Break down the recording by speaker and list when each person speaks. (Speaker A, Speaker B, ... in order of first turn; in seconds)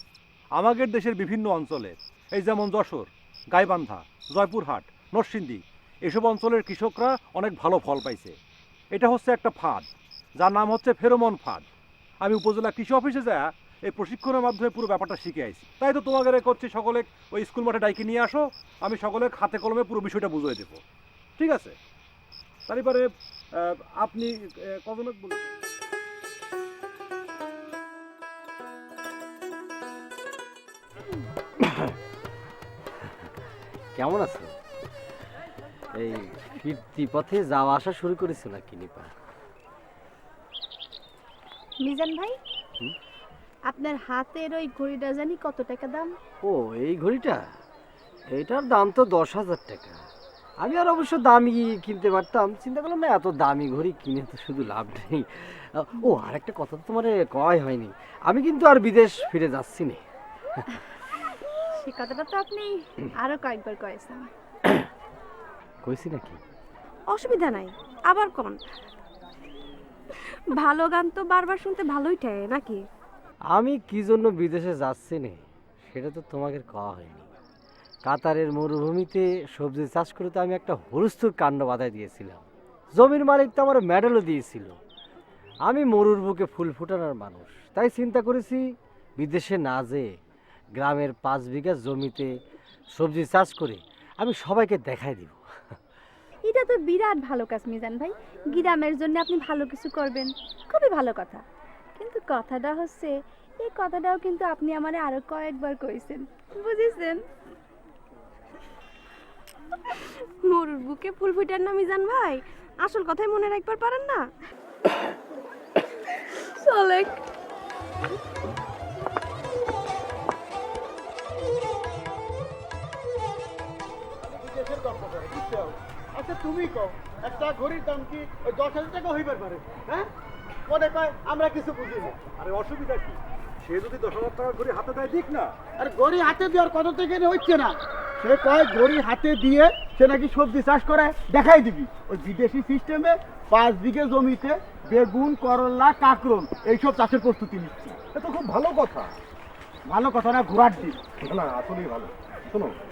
Speaker A: 0.5-8.3, 8.9-11.7, 12.2-20.8, 21.4-21.8, 22.7-25.4, 132.3-135.5, 148.1-149.1, 151.2-152.8
Speaker B: 34.0-34.5, 35.9-39.1, 46.4-47.4, 48.3-50.0, 50.6-60.0, 65.8-66.4, 73.5-77.3, 78.1-84.7, 85.7-88.6, 89.2-90.1, 90.8-92.3, 93.0-95.4
Speaker C: 61.8-64.3, 96.4-101.4, 102.0-103.1, 103.6-107.2, 116.6-117.2
Speaker D: 67.1-68.6, 70.5-72.8, 109.9-114.2
Speaker E: 124.2-130.1, 130.7-132.2, 135.8-148.0, 149.9-151.0